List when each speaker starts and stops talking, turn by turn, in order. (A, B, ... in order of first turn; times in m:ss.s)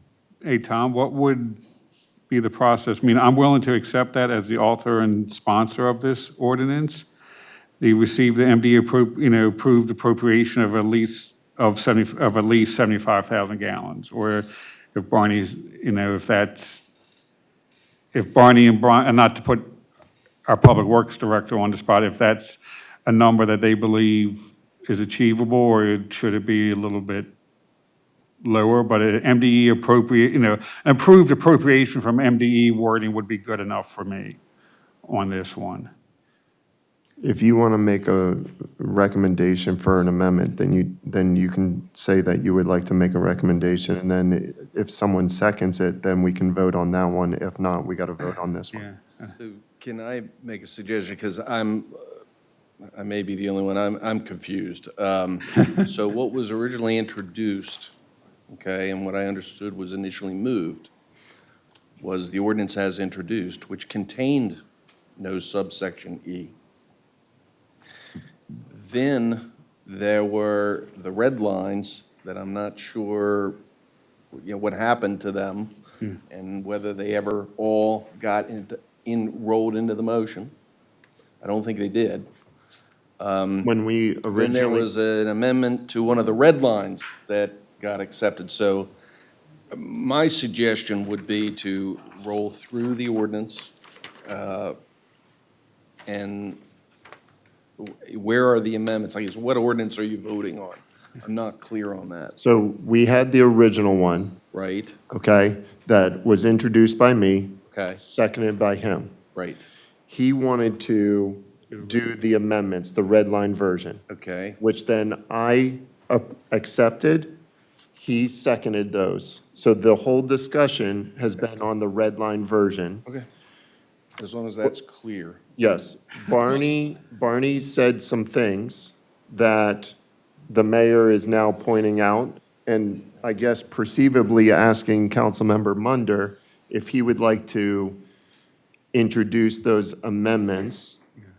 0:00.4-0:01.6 A
0:02.3-0:07.0 A
0:07.8-0:16.8 A
0:18.1-0:19.7 A
0:20.4-0:27.3 A
0:28.4-0:34.4 A
0:35.0-0:35.9 A
0:37.2-0:48.8 B
0:48.7-0:49.3 A
0:49.4-0:52.2 C
0:52.9-0:57.9 C
0:58.5-1:00.9 C
1:02.0-1:04.6 C
1:05.2-1:06.5 C
1:08.7-1:13.6 C
1:14.3-1:20.5 C
1:21.4-1:22.3 C
1:23.2-1:23.7 C
1:23.6-1:24.9 B
1:24.3-1:28.9 C
1:29.7-1:33.7 C
1:34.2-1:34.7 C
1:36.0-1:36.6 C
1:37.8-1:42.4 C
1:42.4-1:44.4 B
1:44.5-1:45.0 C
1:45.1-1:49.1 B
1:47.7-1:48.0 C
1:49.3-1:49.6 C
1:50.1-1:54.0 B
1:54.1-1:54.6 C
1:54.6-1:57.4 B
1:57.9-2:03.0 B
2:04.2-2:05.4 C
2:05.6-2:10.0 B
2:10.5-2:18.0 B
2:18.9-2:21.0 B